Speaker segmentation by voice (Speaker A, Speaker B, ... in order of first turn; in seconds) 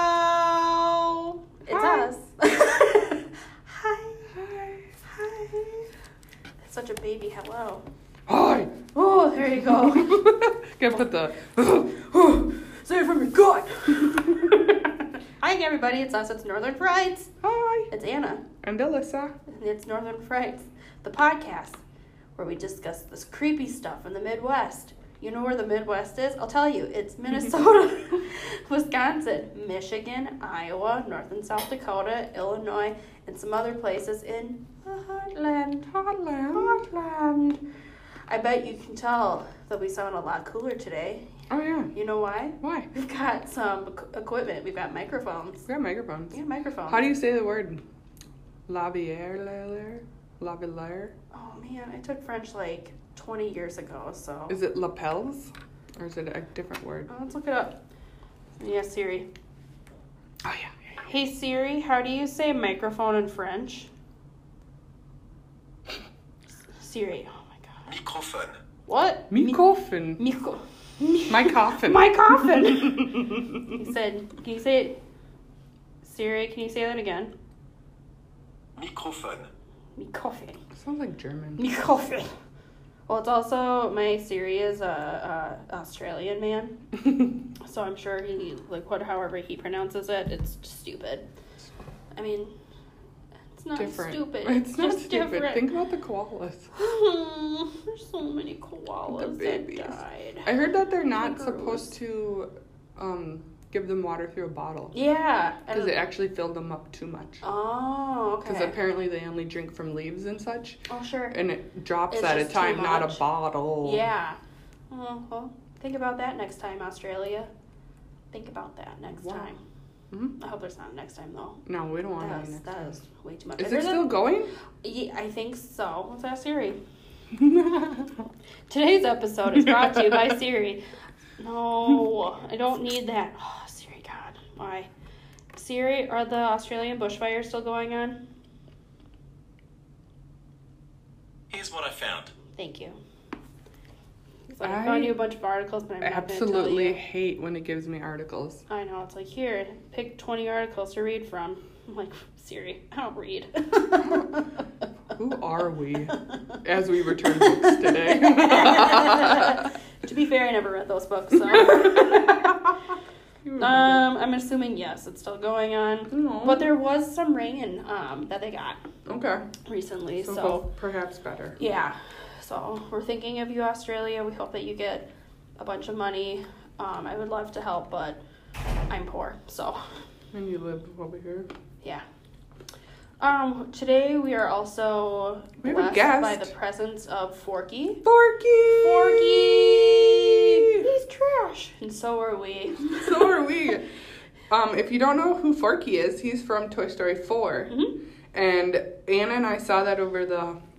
Speaker A: 1.1-4.3, 5.0-5.9, 6.6-7.8, 8.9-10.2, 12.1-17.3, 17.9-18.4, 19.5-21.8, 22.4-35.9, 36.5-37.6, 38.3-41.3, 41.9-45.7, 46.3-47.0, 51.3-54.6, 57.1-57.8, 58.6-59.3, 61.0-63.9, 66.7-67.9, 68.9-69.6, 70.2-75.0, 76.0-77.3, 80.0-80.6, 81.6-82.3, 83.1-86.8, 87.6-91.3, 92.1-92.5, 93.5-95.6, 96.7-100.5, 101.1-101.9, 104.9-106.0, 107.4-108.8, 110.9-111.3, 112.1-113.2, 113.8-114.4, 114.9-117.5, 118.3-119.6, 120.4-121.6, 122.2-124.2, 124.8-126.8, 128.7-130.8, 131.4-134.9, 135.5-138.2, 142.6-143.0, 144.5-147.0, 148.7-154.6, 156.1-156.4, 157.3-162.5, 163.6-168.8, 169.6-170.6, 171.6-175.1, 175.6-178.2, 178.9-179.8, 183.2-188.0, 188.7-193.4, 197.7-197.9
Speaker B: 1.7-2.1, 4.3-4.9, 8.3-8.8, 9.6-12.4, 17.4-17.9, 18.6-19.4, 35.9-37.0, 41.5-41.9, 42.6-42.9, 45.7-46.3, 46.9-47.8, 48.7-51.1, 54.5-57.1, 60.4-60.7, 69.3-70.2, 71.3-73.6, 80.7-81.6, 93.8-96.7, 99.1-104.9, 105.7-107.4, 108.5-114.1, 119.1-119.5, 121.6-122.7, 123.6-124.5, 127.3-128.3, 129.5-130.3, 144.6-145.2, 146.0-148.6, 155.1-159.7, 161.5-162.7, 163.4-164.1, 166.1-166.7, 169.1-169.4, 170.2-171.6, 180.3-181.5, 185.6-186.5, 188.0-190.9, 192.9-193.8, 194.5-197.7, 198.3-200.6
Speaker C: 67.9-68.6, 78.8-79.5, 141.5-142.3